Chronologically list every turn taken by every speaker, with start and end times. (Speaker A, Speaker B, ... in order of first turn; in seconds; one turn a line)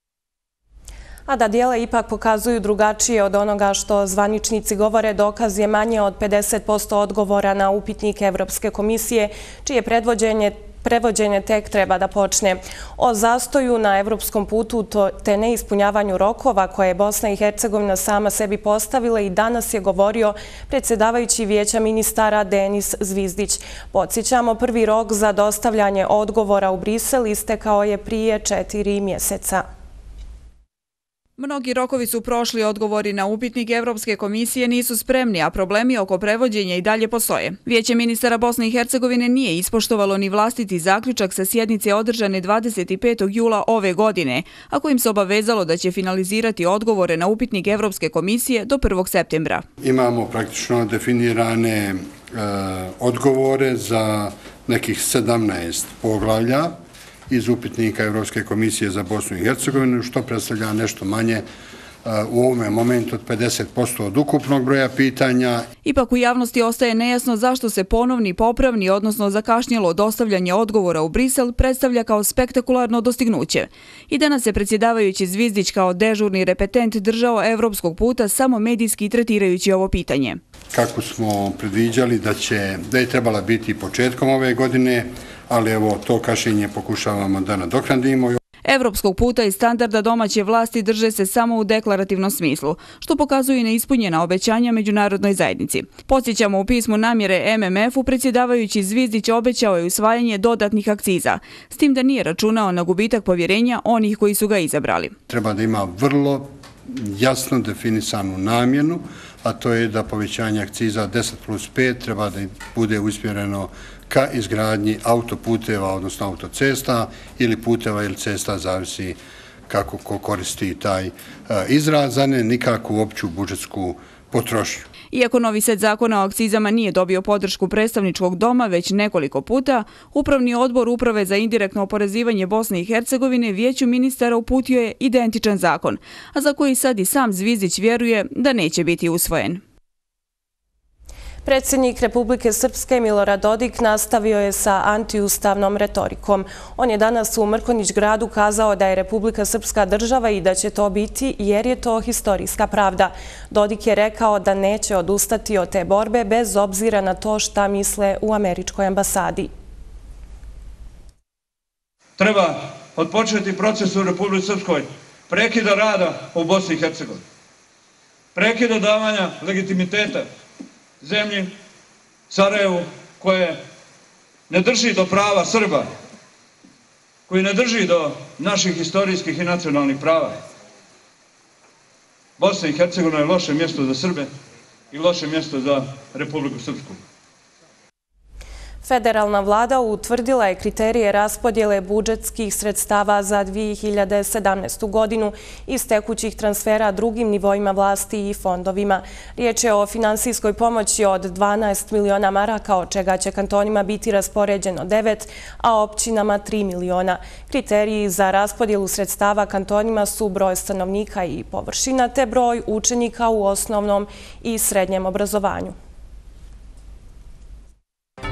Speaker A: 1.3-29.6
Speaker B: 31.4-49.6
Speaker C: 49.8-56.8
Speaker C: 57.3-61.4
Speaker C: 62.0-65.7
Speaker B: 65.8-80.4
Speaker C: 80.7-88.4
Speaker B: 88.6-105.2
Speaker C: 105.3-119.2
Speaker C: 119.7-124.8
Speaker B: 125.1-139.6
Speaker A: 141.4-159.5
Speaker D: 162.2-167.2
Speaker D: 168.3-170.3
Speaker D: 171.0-171.5
Speaker D: 172.3-173.6
Speaker D: 174.5-175.9
Speaker D: 177.3-180.3
Speaker D: 182.4-184.3
Speaker D: 184.9-187.0
Speaker A: 188.8-215.8